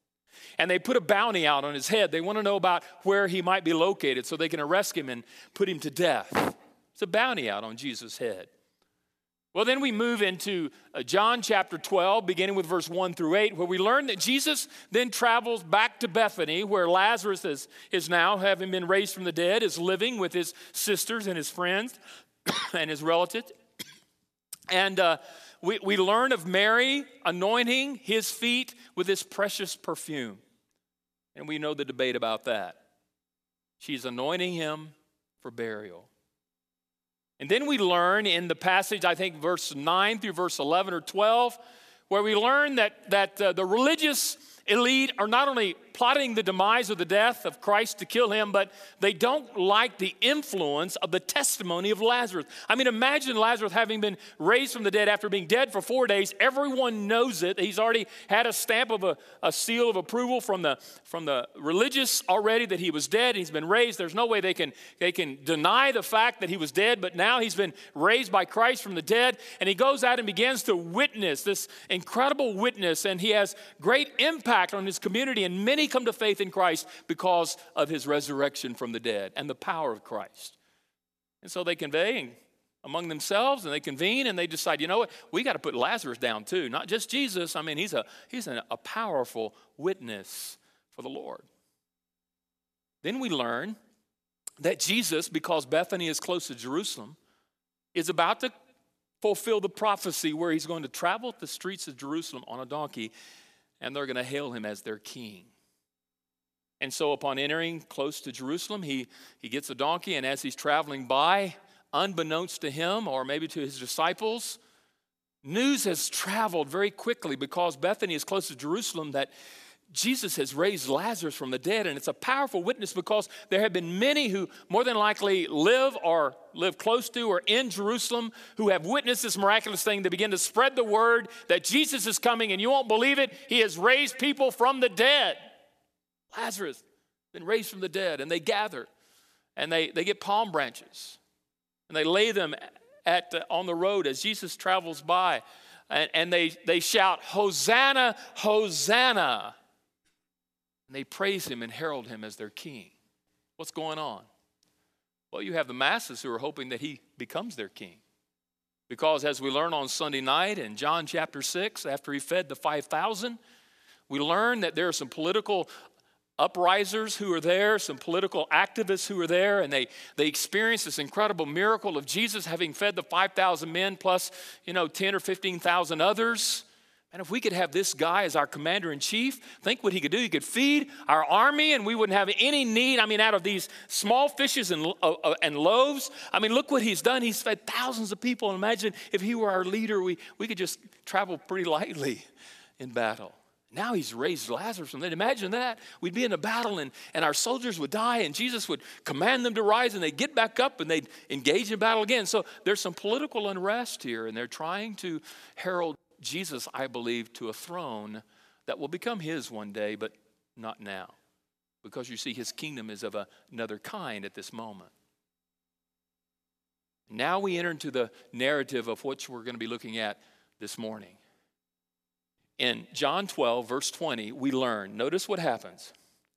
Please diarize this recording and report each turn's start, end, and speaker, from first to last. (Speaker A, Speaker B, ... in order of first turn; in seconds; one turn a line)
Speaker A: 0.6-8.5
Speaker A: 9.5-23.5
Speaker A: 24.7-30.4
Speaker A: 31.3-32.8
Speaker A: 33.8-36.1
Speaker A: 37.4-41.6
Speaker A: 42.1-80.6
Speaker A: 81.4-91.5
Speaker A: 93.0-93.8
Speaker A: 94.6-97.2
Speaker A: 97.9-98.5
Speaker A: 99.2-103.1
Speaker A: 103.8-105.5
Speaker A: 106.8-114.6
Speaker A: 115.4-119.3
Speaker A: 119.9-135.5
Speaker A: 136.3-138.9
Speaker A: 139.6-141.2
Speaker A: 141.9-149.5
Speaker A: 150.9-152.9
Speaker A: 153.6-154.3
Speaker A: 155.3-158.0
Speaker A: 158.9-163.4
Speaker A: 164.1-165.7
Speaker A: 166.4-192.2
Speaker A: 192.8-211.1
Speaker A: 211.8-214.9
Speaker A: 217.1-221.2
Speaker A: 222.6-225.9